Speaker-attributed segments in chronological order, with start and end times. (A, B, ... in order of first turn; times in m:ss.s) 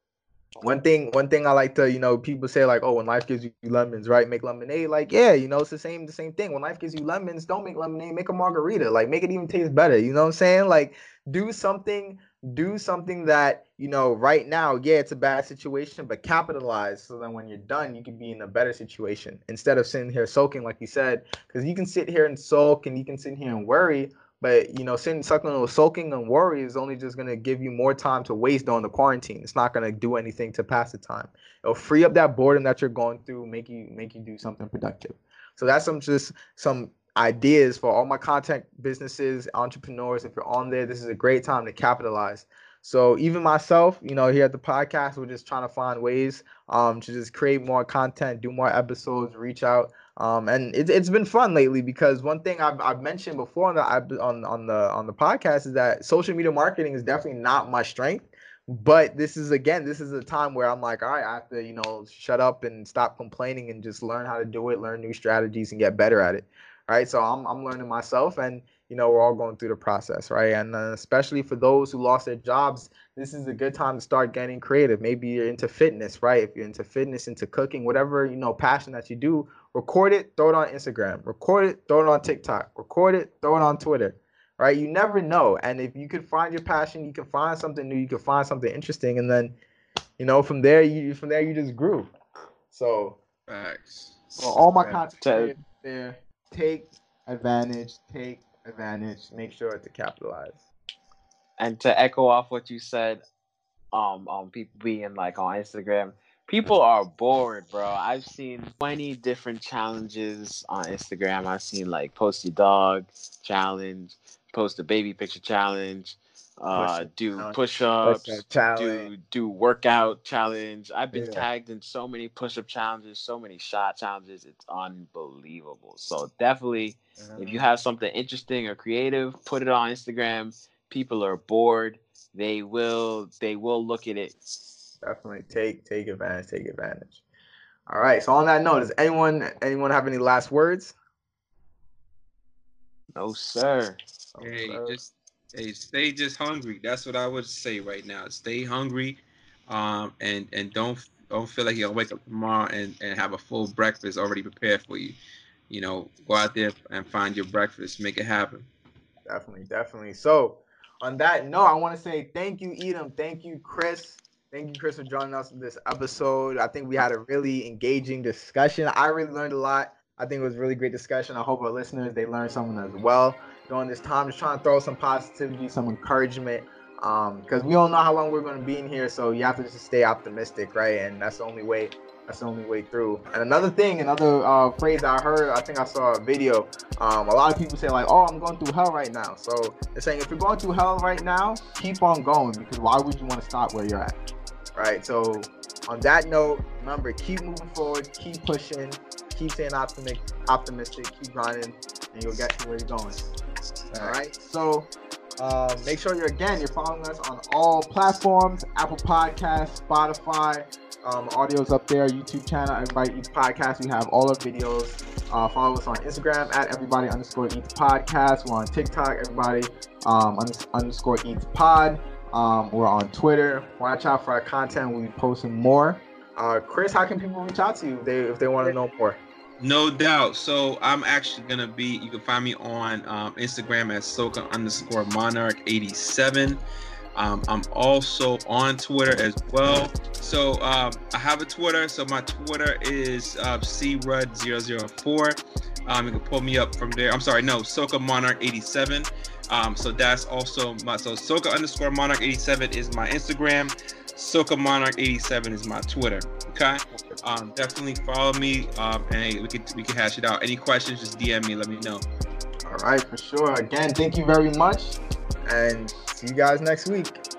0:00.6-1:29.6 A
1:30.2-1:32.1 A
1:32.7-1:33.2 A
1:33.5-1:35.0 B
1:34.4-1:40.6 A
1:35.2-1:35.5 C
1:41.6-1:43.2 C
1:43.9-2:14.3 C
1:56.7-1:59.1 A
2:01.1-2:01.4 A
2:07.2-2:07.6 A
2:15.0-2:17.2 A
2:17.9-2:21.0 A
2:23.1-2:24.0 C
2:24.3-2:25.0 A
2:24.4-2:35.2 B
2:35.7-2:38.7 B
2:39.3-3:14.2 A
3:14.7-3:23.3 A
3:23.9-3:49.2 A
3:49.6-3:56.6 B
3:57.2-4:22.0 B
4:22.6-4:27.2 A